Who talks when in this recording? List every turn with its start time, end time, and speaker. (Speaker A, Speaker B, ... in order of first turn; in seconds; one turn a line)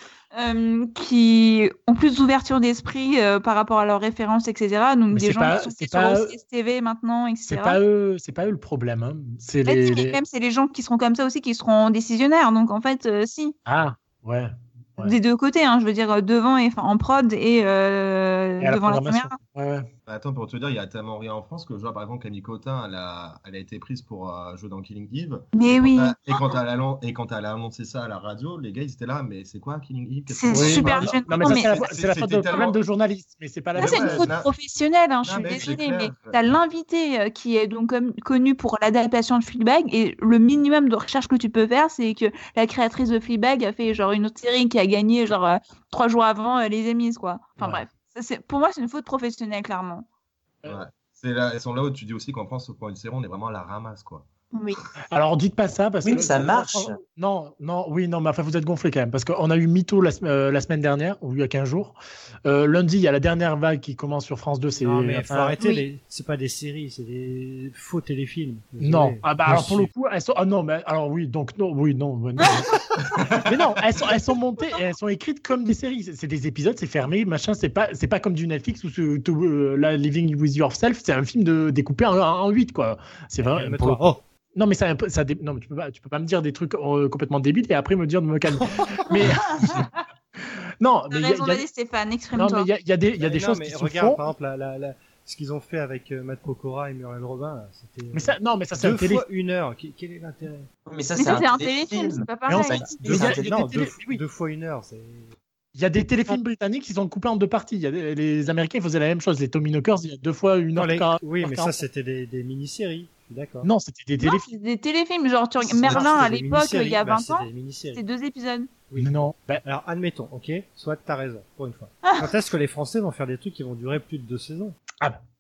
Speaker A: 0.3-7.8
Speaker B: 5.1-6.3
Speaker B: 7.5-10.2
Speaker A: 9.7-13.5
Speaker B: 13.7-15.2
Speaker A: 15.0-19.4
Speaker B: 18.6-19.9
Speaker C: 20.1-32.8
Speaker A: 25.6-26.6
Speaker A: 30.3-31.8
Speaker B: 30.5-34.3
Speaker C: 33.8-34.5
Speaker A: 33.8-50.1
Speaker C: 35.2-36.4
Speaker B: 35.5-35.8
Speaker C: 50.6-54.3
Speaker A: 54.5-54.8
Speaker B: 55.1-65.6
Speaker D: 56.0-57.0
Speaker E: 64.8-69.9
Speaker A: 65.6-65.8
Speaker B: 68.8-72.7
Speaker C: 73.1-73.5
Speaker B: 73.4-84.0
Speaker E: 83.4-84.2
Speaker B: 84.5-89.9
Speaker B: 90.8-91.7
Speaker A: 91.1-92.7
Speaker B: 92.3-94.2
Speaker E: 93.2-100.7
Speaker B: 98.1-99.2
Speaker D: 100.9-103.6
Speaker A: 101.2-102.8
Speaker B: 102.5-104.2
Speaker E: 102.8-105.4
Speaker B: 105.8-111.8
Speaker E: 110.8-113.7
Speaker B: 113.6-114.5
Speaker A: 114.2-118.7
Speaker E: 115.7-118.0
Speaker B: 115.8-116.2
Speaker E: 118.9-124.8
Speaker B: 119.0-119.6